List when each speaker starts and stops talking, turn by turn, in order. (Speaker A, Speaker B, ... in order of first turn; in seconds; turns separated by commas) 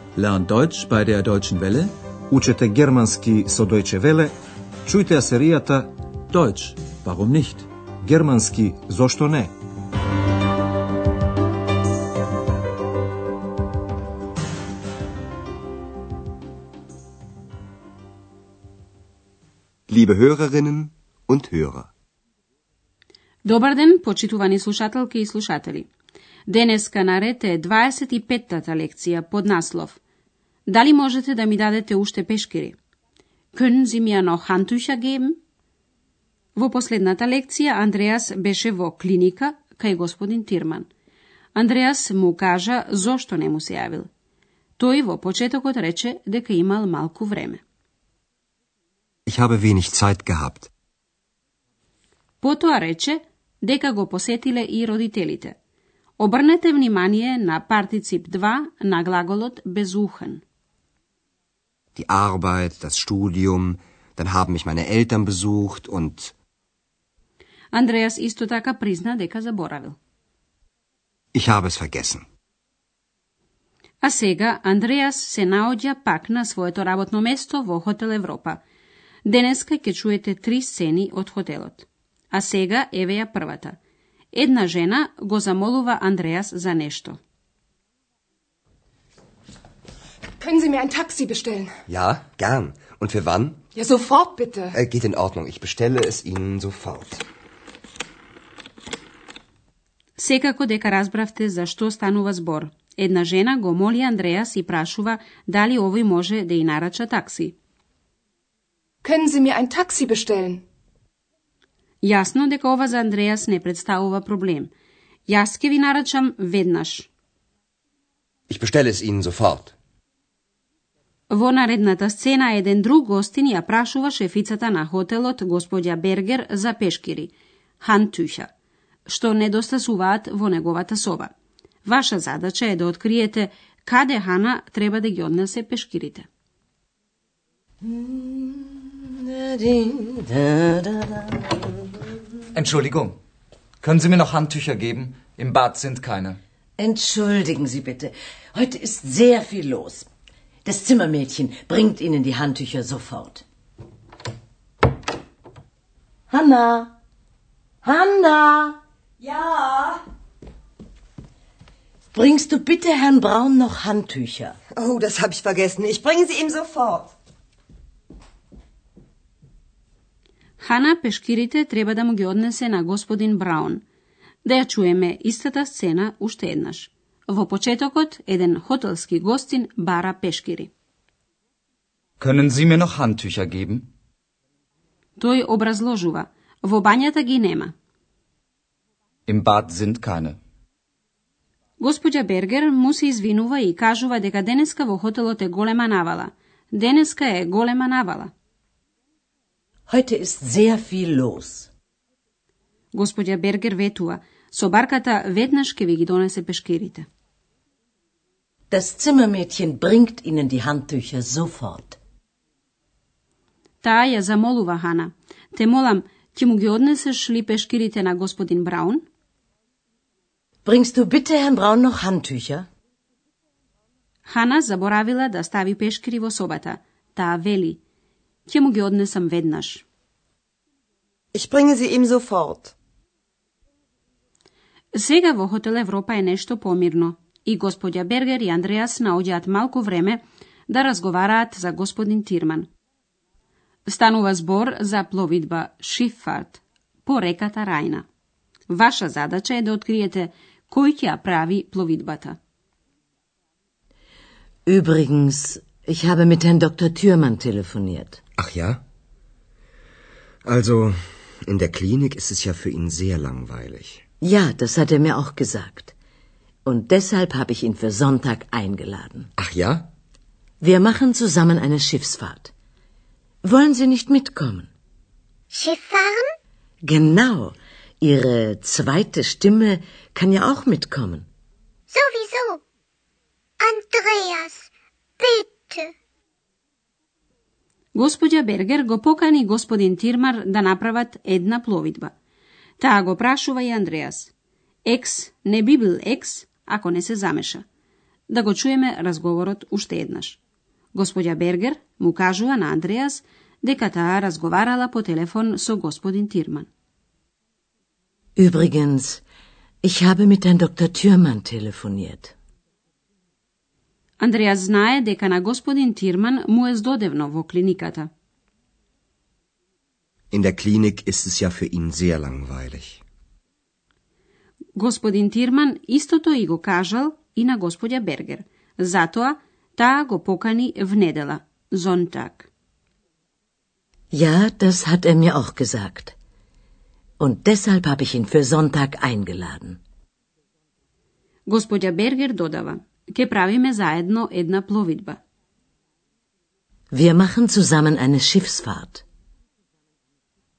Speaker A: 0.1-1.9, Speaker B: 2.3-4.3, Speaker B: 4.8-5.9, Speaker A: 6.3-7.7, Speaker B: 8.0-9.5, Speaker C: 19.9-21.9, Speaker D: 23.4-25.9, Speaker D: 26.5-30.0, Speaker D: 30.7-32.7, Speaker D: 33.5-35.4, Speaker D: 36.5-40.9, Speaker D: 41.5-44.1, Speaker D: 44.8-47.6, Speaker C: 49.3-50.7, Speaker D: 52.4-55.5, Speaker D: 56.2-60.4, Speaker C: 61.9-66.3, Speaker D: 67.7-70.0, Speaker C: 71.3-72.2, Speaker D: 74.0-78.6, Speaker D: 79.2-83.8, Speaker D: 84.3-87.2, Speaker E: 90.4-91.7, Speaker C: 91.9-93.6, Speaker E: 93.7-94.7, Speaker C: 94.7-97.2, Speaker D: 100.2-107.5, Speaker E: 109.0-110.6, Speaker D: 112.0-114.7, Speaker D: 115.3-117.1, Speaker C: 118.5-119.7, Speaker D: 121.3-128.5, Speaker D: 129.1-131.3, Speaker D: 131.8-136.2, Speaker F: 137.8-142.0, Speaker G: 142.5-143.2, Speaker G: 143.8-146.4, Speaker F: 146.8-150.1, Speaker F: 150.6-153.4, Speaker F: 156.3-156.9, Speaker F: 157.8-158.8, Speaker H: 159.2-159.9, Speaker F: 162.1-164.6, Speaker H: 164.7-167.1, Speaker D: 170.6-173.8, Speaker D: 174.4-180.7, Speaker G: 182.2-183.8, Speaker D: 185.2-187.7, Speaker G: 189.3-190.4, Speaker D: 191.8-198.3, Speaker F: 199.9-201.7, Speaker D: 202.9-207.1, Speaker F: 208.7-212.0, Speaker D: 213.8-219.1, Speaker F: 220.6-222.7, Speaker D: 224.2-227.8, Speaker D: 228.5-229.8, Speaker H: 231.3-232.7, Speaker D: 234.9-242.7, Speaker D: 243.9-248.0, Speaker D: 248.7-252.4, Speaker F: 254.7-258.2, Speaker C: 258.4-258.8, Speaker C: 260.4-264.0, Speaker F: 264.2-265.9, Speaker F: 266.6-269.3, Speaker C: 269.4-269.9, Speaker F: 270.6-272.5, Speaker F: 273.4-274.7, Speaker I: 275.5-276.3, Speaker F: 276.8-281.3, Speaker I: 281.9-282.6, Speaker I: 283.6-285.9, Speaker D: 287.9-292.1, Speaker D: 292.8-294.3, Speaker D: 294.8-297.6, Speaker D: 298.3-300.4, Speaker D: 300.9-306.7, Speaker F: 308.4-309.2, Speaker F: 309.8-312.3, Speaker D: 314.2-318.1, Speaker C: 320.3-323.0, Speaker D: 324.8-332.5, Speaker F: 334.1-336.1, Speaker F: 337.2-339.8, Speaker D: 341.5-345.2, Speaker F: 346.9-349.0